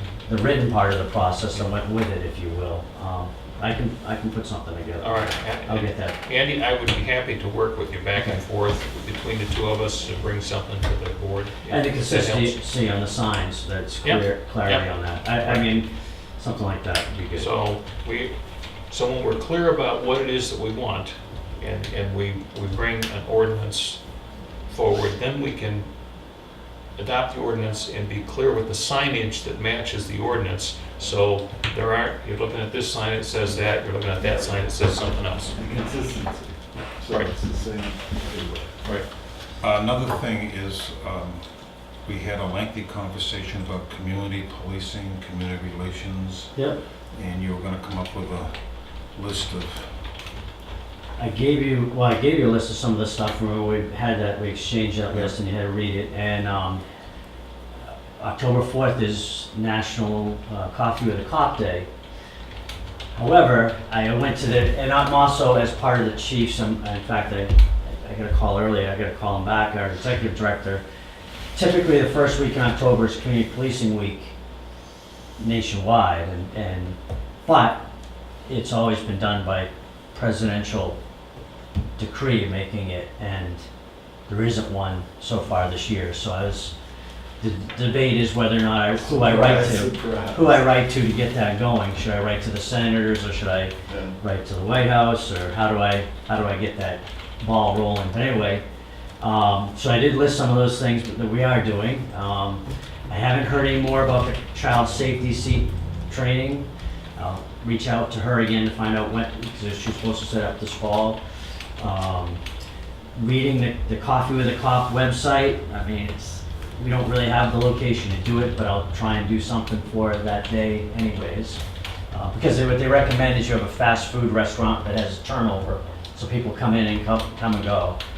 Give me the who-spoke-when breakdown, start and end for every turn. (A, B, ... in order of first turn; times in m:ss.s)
0:00.3-0:06.2 A
0:05.0-0:12.6 B
0:08.2-0:08.4 A
0:11.7-0:17.5 A
0:14.0-0:15.7 B
0:17.3-0:18.3 B
0:18.9-0:24.0 B
0:24.7-0:25.9 B
0:27.0-0:35.6 B
0:35.6-0:38.7 C
0:39.6-0:41.5 D
0:42.0-0:46.5 D
0:47.1-0:48.6 D
0:49.1-0:50.0 D
0:51.2-0:56.8 A
0:55.1-0:55.3 D
0:58.2-1:01.9 A
1:03.1-1:10.8 A
1:11.5-1:14.3 A
1:15.4-1:17.8 A
1:18.5-1:21.0 A
1:22.0-1:23.6 A
1:24.3-1:26.7 A
1:27.4-1:38.6 A
1:29.0-1:30.7 C
1:33.9-1:34.2 C
1:39.2-1:51.2 A
1:51.8-1:52.4 A
1:53.2-2:08.0 A